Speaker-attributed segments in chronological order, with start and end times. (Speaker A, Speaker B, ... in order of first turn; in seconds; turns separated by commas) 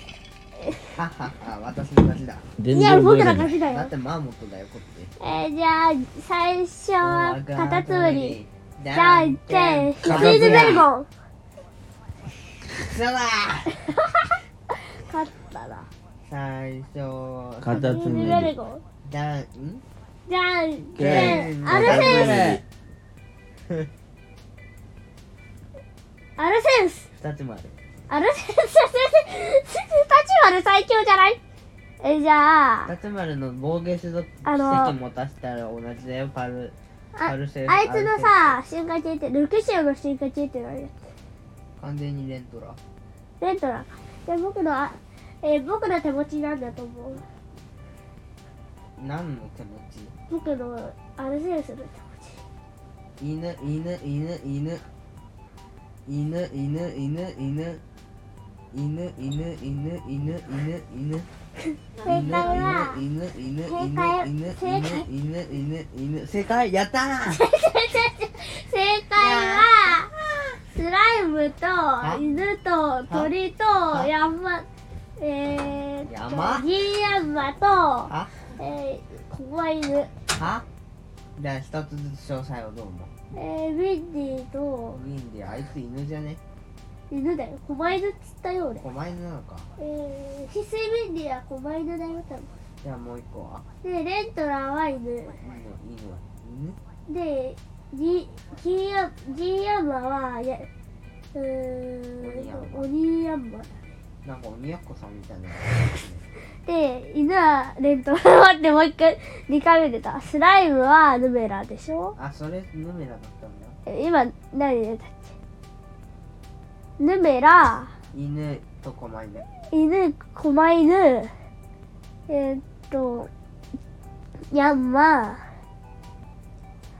Speaker A: 0.9-2.5, Speaker B: 2.6-3.5, Speaker C: 2.7-3.9, Speaker A: 3.7-5.1, Speaker C: 5.2-8.4, Speaker A: 7.0-10.9, Speaker C: 8.9-11.1, Speaker B: 10.0-10.8, Speaker A: 12.8-13.9, Speaker C: 14.9-15.9, Speaker A: 16.2-18.4, Speaker B: 17.6-18.6, Speaker C: 17.7-18.8, Speaker A: 19.0-19.8, Speaker C: 20.3-22.4, Speaker B: 20.9-22.6, Speaker A: 21.0-22.6, Speaker C: 26.4-27.1, Speaker A: 27.1-27.7, Speaker C: 28.1-31.4, Speaker C: 32.0-32.9, Speaker A: 32.9-38.6, Speaker C: 34.4-34.9, Speaker C: 37.1-41.0, Speaker A: 41.8-42.8, Speaker C: 43.4-47.2, Speaker A: 49.0-50.1, Speaker C: 50.3-52.4, Speaker A: 53.2-54.8, Speaker A: 56.1-57.8, Speaker A: 58.7-61.3, Speaker A: 62.0-67.4, Speaker C: 62.0-63.0, Speaker C: 63.7-65.0, Speaker C: 67.3-70.1, Speaker A: 69.2-70.1, Speaker C: 70.7-74.7, Speaker A: 72.0-72.4, Speaker C: 75.2-80.1, Speaker A: 76.0-76.7, Speaker A: 78.1-78.3, Speaker A: 80.3-80.6, Speaker A: 81.4-83.1, Speaker C: 83.3-85.0, Speaker A: 84.9-86.4, Speaker C: 87.1-88.8, Speaker A: 88.8-89.7, Speaker C: 89.8-92.5, Speaker A: 92.8-93.6, Speaker C: 93.8-95.4, Speaker A: 95.4-96.8, Speaker C: 97.1-100.7, Speaker C: 101.3-103.8, Speaker A: 102.2-102.9, Speaker A: 104.2-106.2, Speaker C: 106.6-112.1, Speaker A: 112.2-113.8, Speaker C: 113.8-115.3, Speaker C: 117.0-117.9, Speaker A: 118.1-119.5, Speaker C: 119.6-121.3, Speaker C: 122.3-123.3, Speaker C: 124.5-125.5